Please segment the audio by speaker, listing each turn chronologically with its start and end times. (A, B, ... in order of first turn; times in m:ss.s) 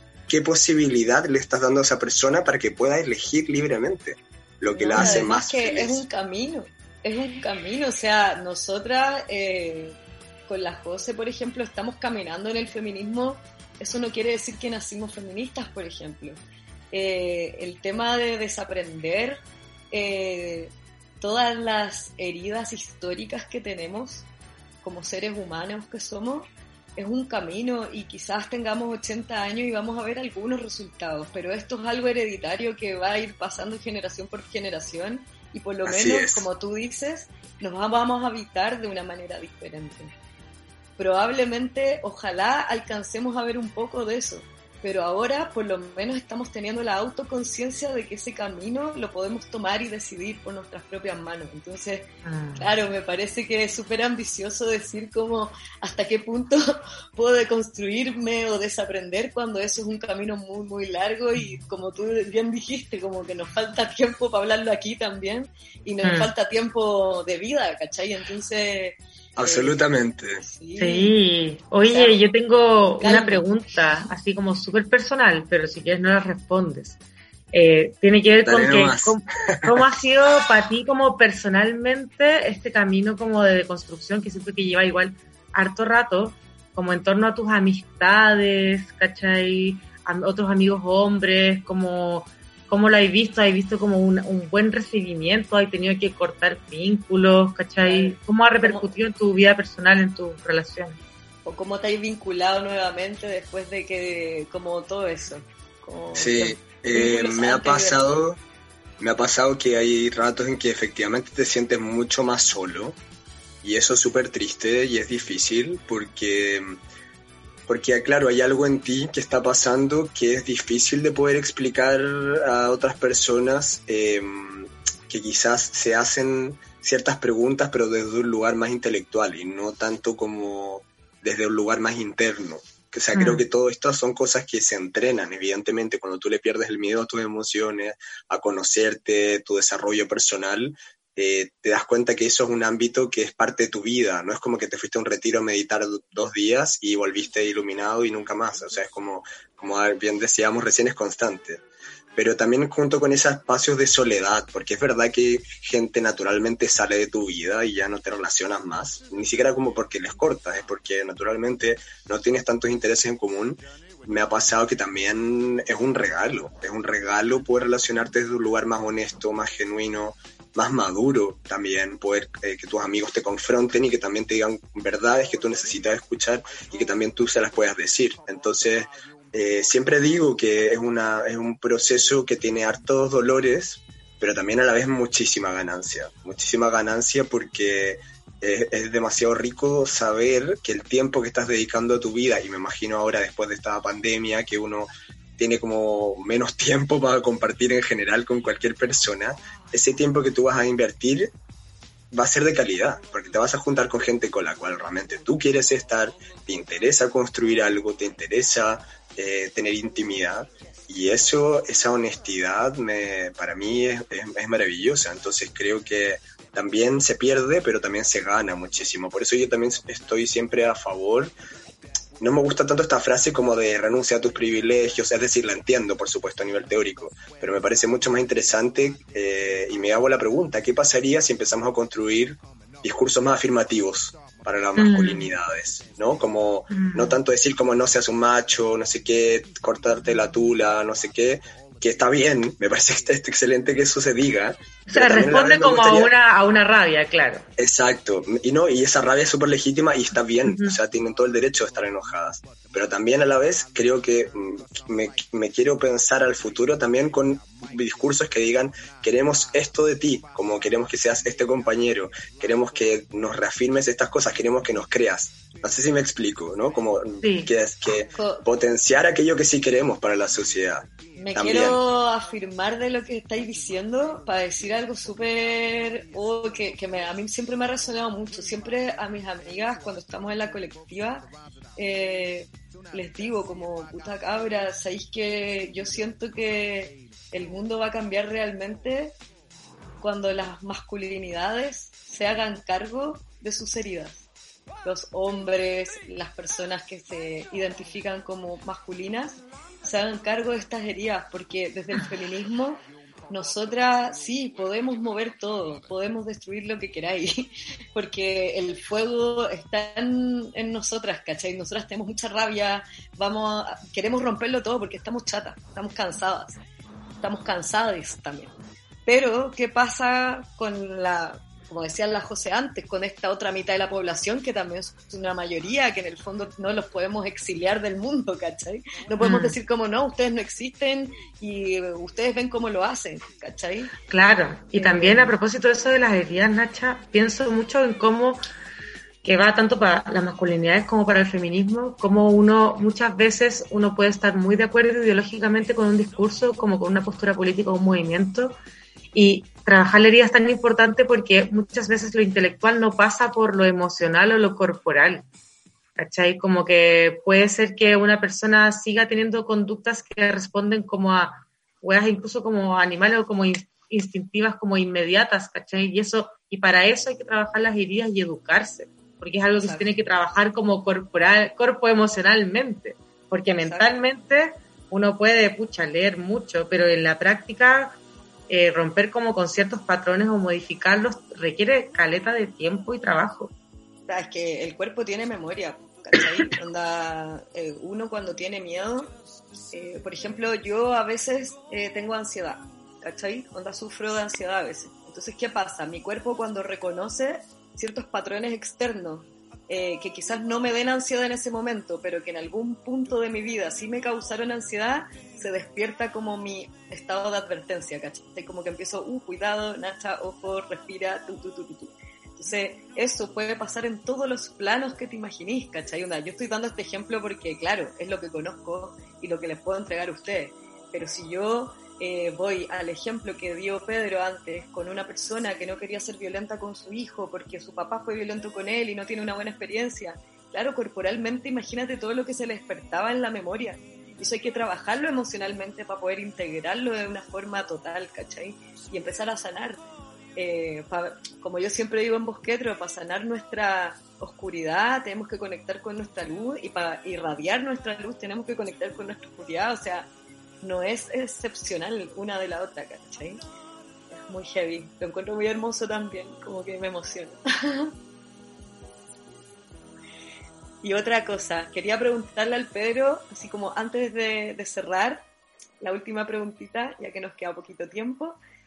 0:00.3-0:06.0 A
0:04.8-0:16.4 B
0:05.0-0:05.3 C
0:16.9-0:24.3 B
0:24.8-0:40.1 B
0:35.8-0:36.5 A
0:41.0-1:09.8 B
0:52.2-0:52.7 C
1:06.0-1:06.3 C
1:09.4-1:10.4 A
1:10.4-1:11.1 B
1:10.8-1:17.0 C
1:11.9-1:12.2 B
1:13.0-1:13.5 B
1:17.5-1:41.0 C
1:18.4-1:19.8 A
1:37.8-1:38.9 B
1:41.4-1:48.2 B
1:46.2-1:48.4 A
1:49.0-1:53.0 A
1:53.6-1:56.8 A
1:57.7-2:31.6 A
2:13.1-2:13.4 C
2:32.2-3:21.3 A
3:22.1-3:41.3 A
3:42.2-4:06.1 A
3:54.8-3:55.3 C
3:56.7-3:57.2 C
4:04.9-4:07.4 C
4:07.6-4:31.8 A
4:10.4-4:10.8 C
4:27.2-4:27.5 C
4:28.2-4:28.4 B
4:31.2-4:49.2 B
4:50.0-4:54.2 B
4:54.8-5:16.6 B
5:17.2-5:18.5 B
5:19.1-5:33.9 B
5:29.2-5:29.6 C
5:34.1-5:38.4 C
5:34.8-5:35.4 B
5:39.2-5:48.6 C
5:49.1-5:55.2 C
5:56.0-6:18.0 C
6:09.6-6:09.9 B
6:13.6-6:13.9 B
6:18.5-6:23.5 C
6:24.1-6:29.1 B
6:29.7-7:19.8 B
7:20.4-7:30.1 B
7:30.6-7:33.4 B
7:34.1-7:37.9 B
7:40.8-7:45.3 B
7:45.8-7:48.4 B